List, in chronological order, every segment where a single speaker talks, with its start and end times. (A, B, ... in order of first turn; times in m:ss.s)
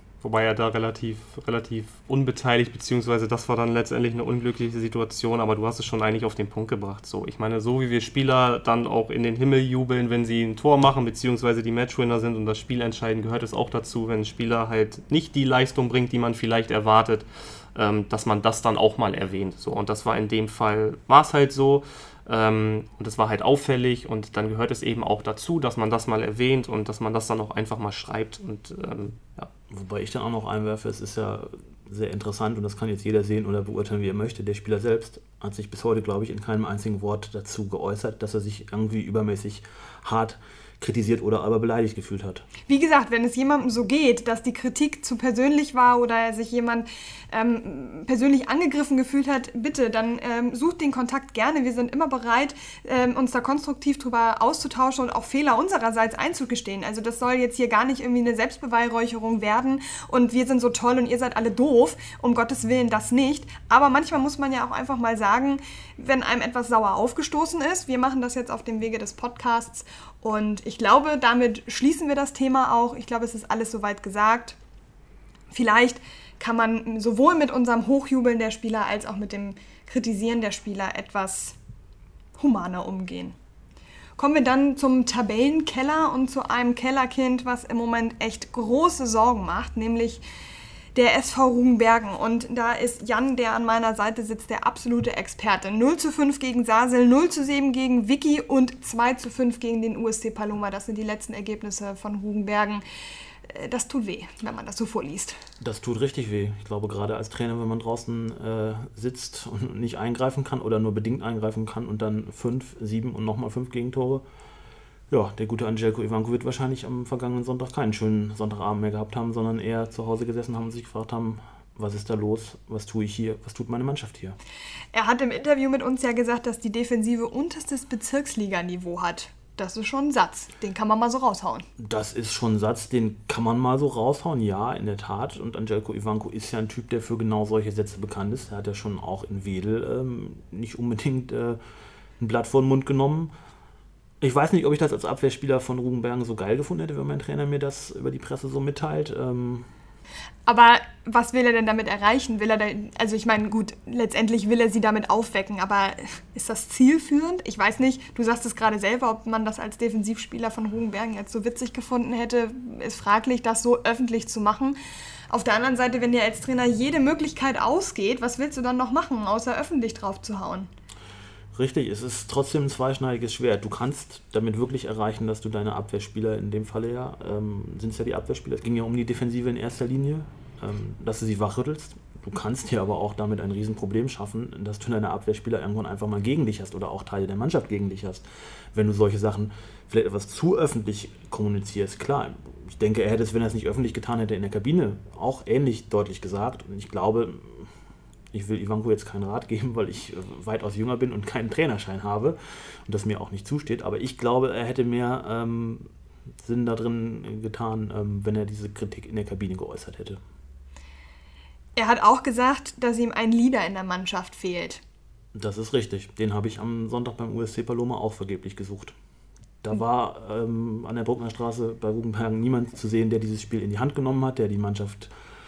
0:00.2-0:29.5 A
0:29.7-0:42.5 B
0:42.6-1:14.6 C
1:15.5-1:21.6 C
1:22.4-1:23.4 C
1:24.2-1:30.2 C
1:31.0-1:42.8 C
1:43.5-1:45.4 C
1:45.6-1:54.2 B
1:55.1-2:04.4 B
2:04.9-2:11.7 C
2:11.8-2:21.6 B
2:22.2-2:23.3 B
2:24.2-2:29.7 B
2:30.5-2:44.8 C
2:45.3-2:50.7 C
2:51.5-3:17.7 B
3:18.3-3:25.9 B
3:26.4-3:30.2 B
3:31.8-3:34.8 C
3:35.3-3:39.0 B
3:39.6-3:45.1 B